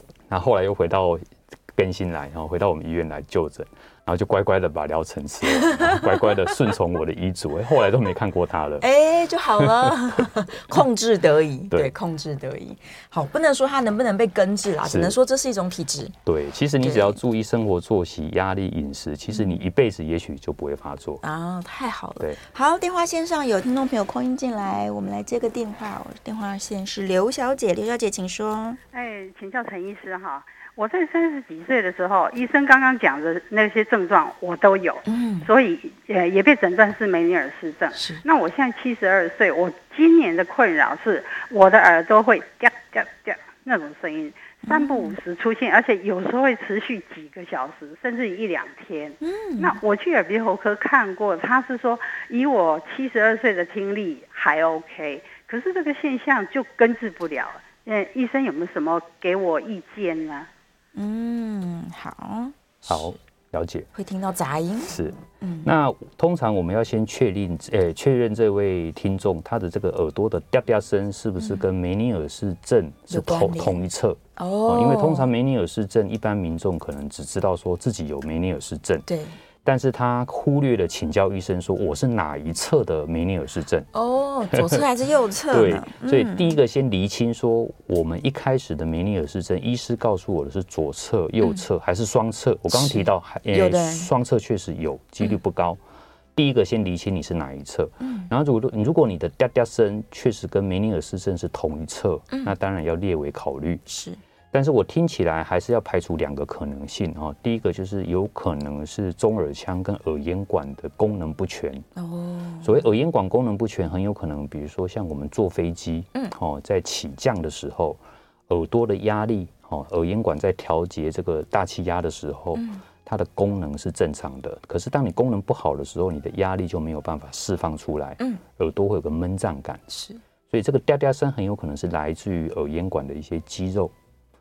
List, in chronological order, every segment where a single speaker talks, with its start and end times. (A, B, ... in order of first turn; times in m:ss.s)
0:00.3-0:08.8 A
0:05.5-0:06.4 B
0:08.8-0:16.1 B
0:09.6-0:10.2 A
0:14.8-0:15.2 A
0:16.2-0:21.2 A
0:16.8-0:17.1 B
0:19.3-0:19.6 B
0:21.2-0:28.8 B
0:28.9-1:00.5 C
0:35.0-0:35.5 B
0:37.9-0:38.2 B
0:44.6-0:45.2 B
0:49.2-0:49.8 B
1:00.9-1:03.2 B
1:02.9-1:03.9 A
1:03.9-1:05.7 B
1:04.9-1:19.0 A
1:11.4-1:11.6 B
1:13.1-1:13.8 B
1:14.4-1:15.3 B
1:19.0-1:19.4 B
1:19.6-1:23.9 A
1:23.9-1:26.6 B
1:24.5-1:24.8 A
1:25.5-1:35.8 A
1:32.7-1:34.1 B
1:36.3-1:43.8 A
1:38.0-1:38.3 B
1:42.3-1:42.5 B
1:43.9-1:44.2 B
1:44.5-1:51.8 A
1:52.0-1:52.8 B
1:52.6-2:09.8 A
2:02.5-2:02.8 B
2:09.9-2:10.2 B
2:10.5-2:13.9 A